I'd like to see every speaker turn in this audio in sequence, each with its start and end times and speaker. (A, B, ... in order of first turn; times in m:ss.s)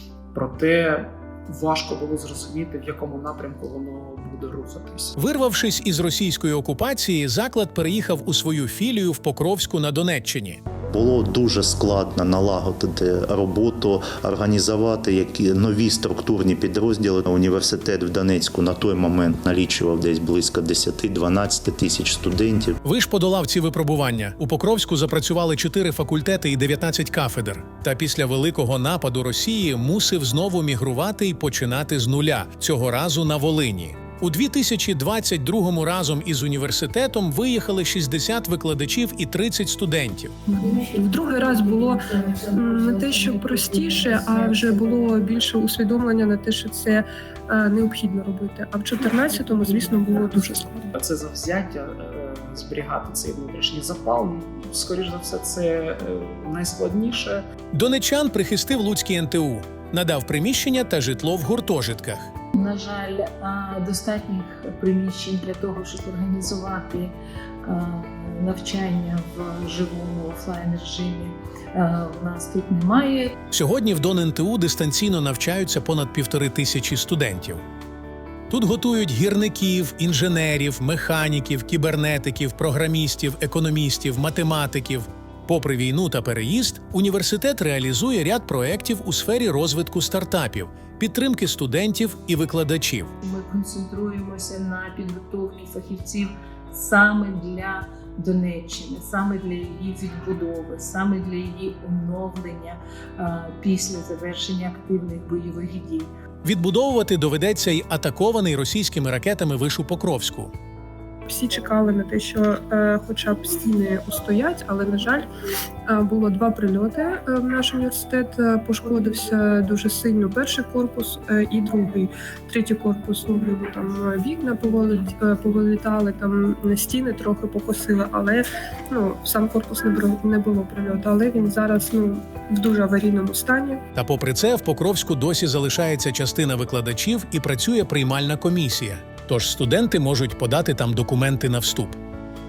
0:00.3-0:05.2 A
0:05.2-0:10.6 B
0:10.9-0:22.8 C
0:22.8-0:40.3 B
0:40.5-0:50.9 D
0:50.9-0:57.4 A
0:57.7-1:02.3 B
1:02.5-1:13.4 E
1:13.5-1:17.6 B
1:18.5-1:33.1 B
1:33.2-1:46.1 E
1:46.4-1:50.5 B
1:51.3-1:55.3 D
1:55.9-2:13.8 D
2:14.0-2:22.0 B